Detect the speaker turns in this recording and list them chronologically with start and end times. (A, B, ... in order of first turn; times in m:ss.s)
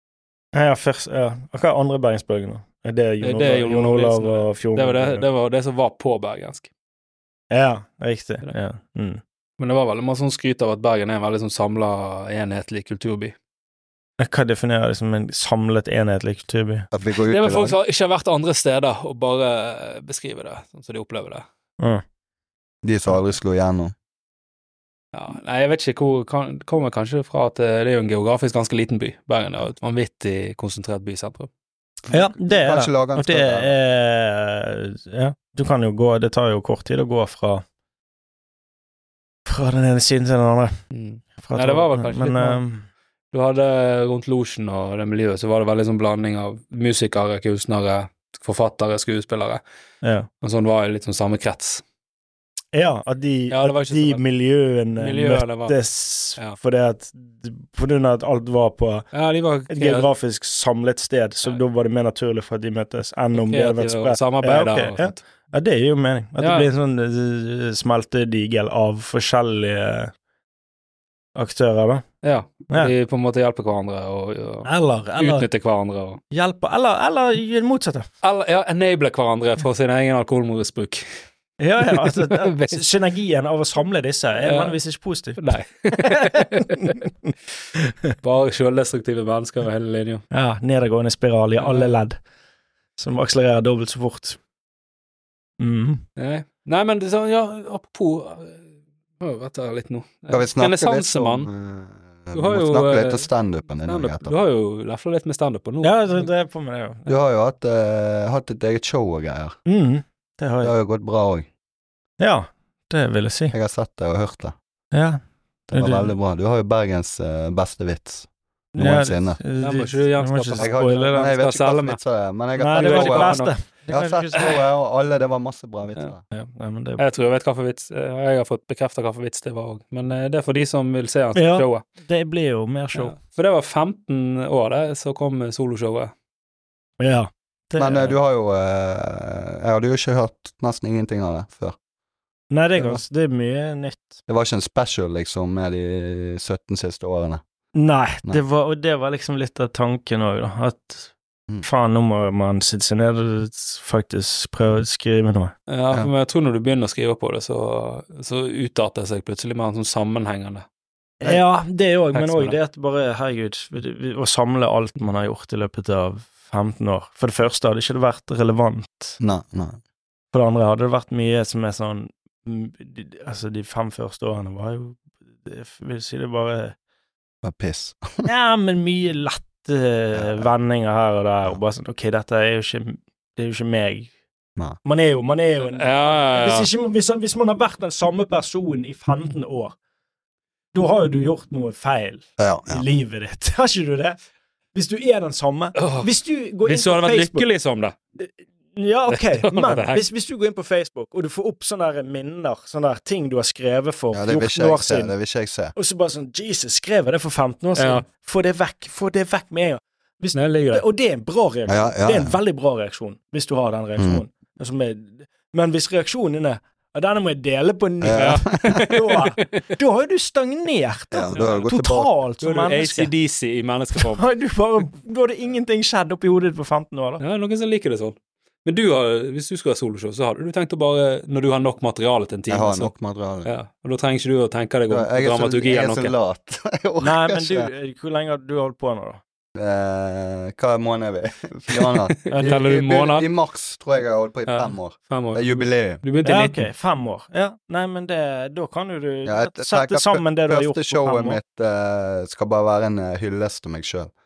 0:00.5-0:05.2 A
0:03.2-0:06.7 B
0:07.5-0:09.2 A
0:09.6-0:13.4 B
0:14.2-0:16.9 A
0:16.9-0:17.8 C
0:17.2-0:21.5 B
0:22.8-0:23.9 C
0:25.1-0:31.5 B
0:32.1-0:37.6 A
0:32.4-0:33.7 C
0:39.5-0:40.7 A
0:40.9-0:42.6 B
0:41.4-0:42.9 A
0:43.3-0:49.6 B
0:50.0-0:50.3 A
0:50.4-0:51.8 B
0:52.7-0:59.1 A
0:53.5-0:54.2 B
0:55.0-0:55.8 B
0:59.1-1:00.1 B
0:59.7-1:10.1 A
1:03.3-1:05.2 B
1:06.4-1:06.7 B
1:11.4-1:12.0 A
1:12.2-1:16.2 B
1:14.6-1:15.5 A
1:16.3-1:18.1 A
1:18.2-1:21.1 B
1:21.6-1:25.4 A
1:21.8-1:22.8 B
1:24.4-1:24.8 B
1:25.4-1:27.0 B
1:25.9-1:28.1 A
1:28.2-1:30.2 B
1:30.3-1:32.2 A
1:31.6-1:32.0 B
1:33.0-1:34.4 A
1:35.6-1:36.0 A
1:36.2-1:38.7 B
1:39.2-1:41.5 B
1:40.3-1:44.3 C
1:42.3-1:43.3 B
1:43.9-1:46.3 B
1:45.8-1:47.1 A
1:47.1-1:49.6 C
1:49.7-1:50.7 A
1:50.6-1:51.5 C
1:52.2-1:53.5 A
1:53.5-1:54.6 C
1:54.9-1:55.2 A
1:55.7-1:59.4 C
1:55.7-1:56.1 A
1:58.8-2:01.3 A
1:59.6-2:02.0 B
2:00.6-2:06.2 C
2:02.6-2:04.6 A
2:02.7-2:03.5 B
2:06.3-2:07.0 A
2:07.0-2:11.8 B
2:11.3-2:13.1 A
2:12.9-2:16.1 B
2:17.0-2:18.2 A
2:17.8-2:21.8 C
2:22.5-2:24.2 A
2:24.3-2:27.4 C
2:27.8-2:31.1 A
2:31.6-2:35.6 A
2:35.7-2:40.7 B
2:41.2-2:49.2 A
2:42.1-2:42.6 B
2:49.2-2:49.8 C
2:50.3-2:56.8 A
2:57.4-2:58.3 C
2:58.2-3:04.1 A
3:00.2-3:00.4 C
3:04.8-3:09.8 A
3:05.7-3:06.7 B
3:10.7-3:14.2 A
3:12.4-3:12.8 C
3:14.7-3:17.5 A
3:15.8-3:16.1 B
3:16.6-3:18.0 B
3:18.2-3:25.1 A
3:19.1-3:20.0 B
3:24.1-3:25.7 C
3:25.8-3:43.1 A
3:27.8-3:28.1 B
3:30.3-3:30.8 B
3:31.7-3:32.4 C
3:34.0-3:34.2 C
3:38.0-3:38.6 C
3:38.2-3:39.6 B
3:41.1-3:42.1 C
3:41.3-3:41.7 B
3:42.4-3:44.2 B
3:44.0-3:47.2 A
3:47.2-3:52.9 B
3:52.5-3:53.5 C
3:53.4-3:56.1 B
3:54.9-3:57.7 C
3:57.0-3:59.2 A
3:59.6-4:06.0 C
4:01.8-4:03.3 B
4:04.5-4:06.6 B
4:06.2-4:11.4 A
4:09.3-4:14.1 C